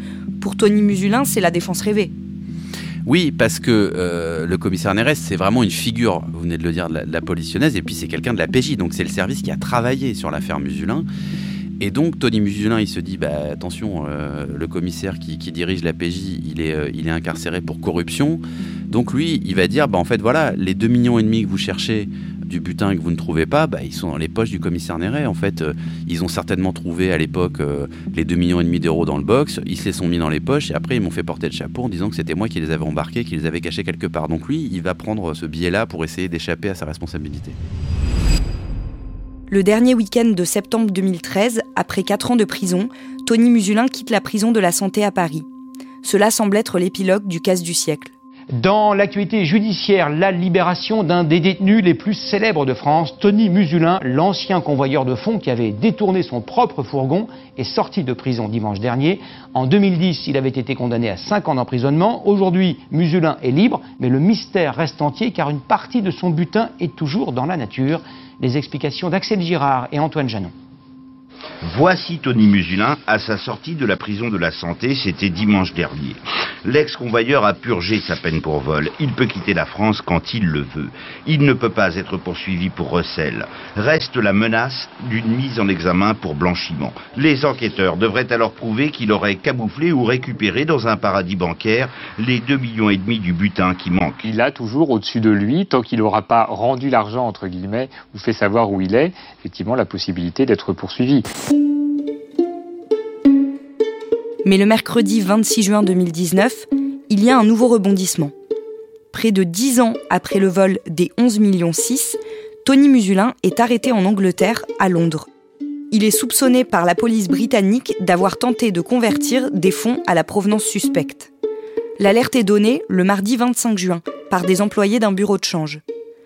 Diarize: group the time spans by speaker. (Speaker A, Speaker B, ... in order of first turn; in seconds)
Speaker A: 0.4-2.1, 39.5-45.5, 46.0-48.1, 104.4-108.3, 109.1-115.3, 115.9-121.3, 122.0-125.8
Speaker B: 3.0-11.1, 11.8-37.6
Speaker C: 48.6-70.5
Speaker D: 71.6-94.2
Speaker E: 94.2-101.2